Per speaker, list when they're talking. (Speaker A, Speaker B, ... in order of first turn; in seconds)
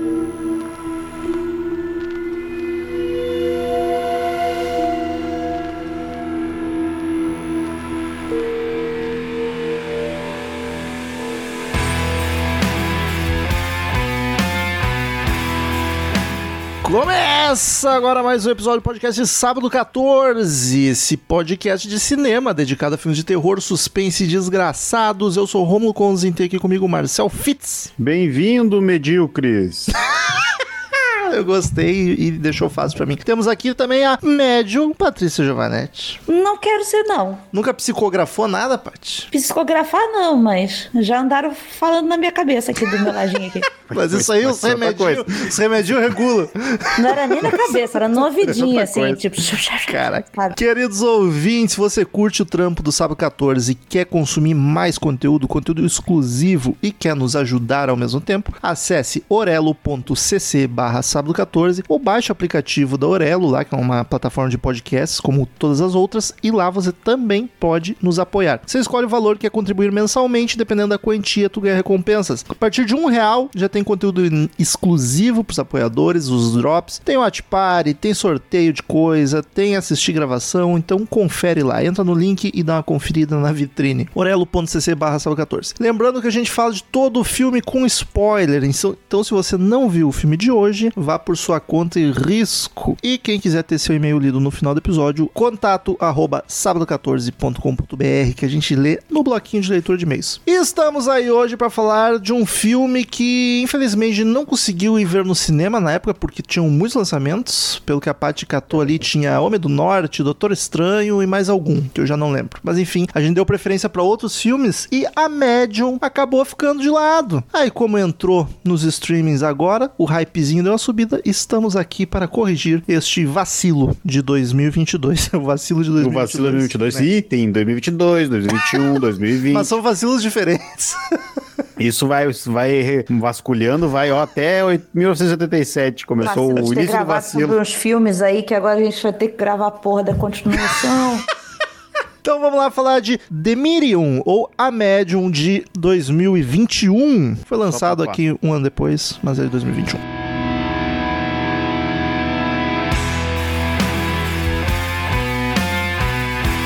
Speaker A: 16.8-27.9, 30.0-36.2, 37.5-39.3, 43.7-47.8, 49.9-127.1, 129.5-131.0, 140.6-140.8, 142.2-150.0
Speaker B: 28.0-29.9, 43.9-45.5, 48.4-49.2, 126.0-129.7, 131.8-137.6, 147.7-148.2
Speaker C: 36.3-37.4, 39.3-43.7, 47.0-50.5, 136.2-141.2